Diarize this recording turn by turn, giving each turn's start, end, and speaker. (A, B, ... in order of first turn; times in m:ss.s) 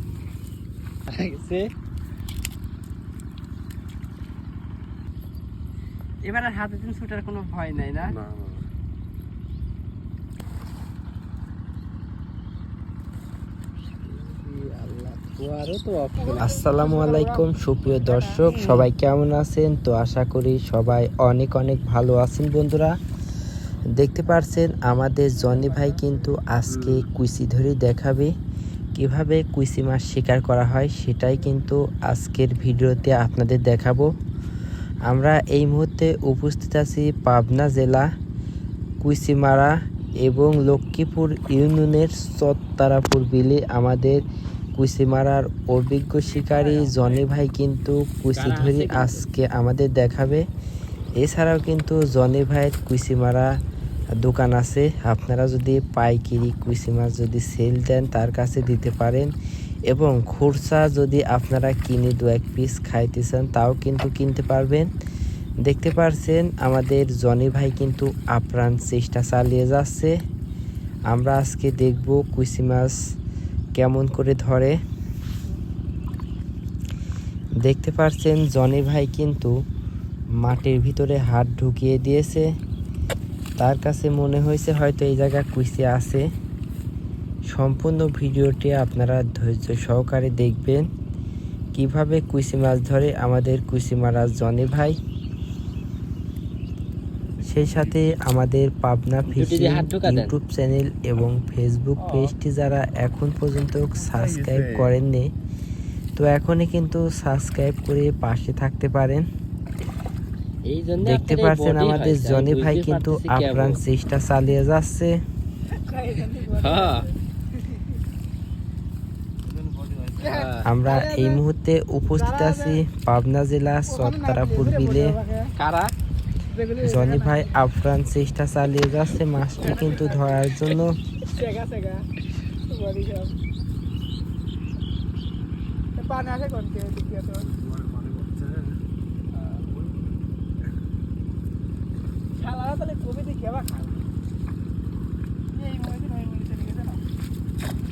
0:01.1-0:01.7 A
0:06.2-0:08.2 A
0:08.1-0:08.7 B
0:14.0-0:16.5 A
0:16.2-0:18.6 C
0:16.4-0:23.0 D
0:24.0-0:28.3 D
0:26.7-0:27.0 B
0:29.0-0:34.1 D
0:35.1-0:38.1 D
0:39.0-0:44.2 D
0:44.8-0:50.4 D
0:48.3-0:49.3 A
0:51.2-0:53.5 D
0:54.2-0:59.3 D
0:59.9-1:04.9 D
1:05.6-1:10.1 D
1:11.1-1:13.0 D
1:13.8-1:14.8 D
1:17.6-1:19.5 D
1:20.4-1:22.5 D
1:23.6-1:26.3 D
1:27.5-1:30.9 D
1:31.8-1:35.0 D
1:37.4-1:38.0 B
1:37.4-1:45.3 D
1:39.3-1:40.4 A
1:42.0-1:42.3 B
1:44.1-1:45.0 B
1:46.2-1:49.3 D
1:50.7-1:53.8 A
1:51.0-1:55.2 D
1:55.7-1:57.9 C
1:56.5-1:57.1 A
1:59.4-2:00.5 B
2:00.2-2:01.4 C
2:00.3-2:00.7 A
2:00.6-2:05.2 D
2:02.2-2:02.8 C
2:03.9-2:05.5 C
2:05.6-2:05.9 A
2:06.5-2:07.6 C
2:06.8-2:11.0 D
2:09.6-2:10.5 C
2:11.3-2:13.4 C
2:16.0-2:17.5 C
2:17.4-2:18.8 B
2:19.4-2:19.6 C
2:19.7-2:20.0 B
2:22.4-2:24.1 C
2:25.5-2:27.0 C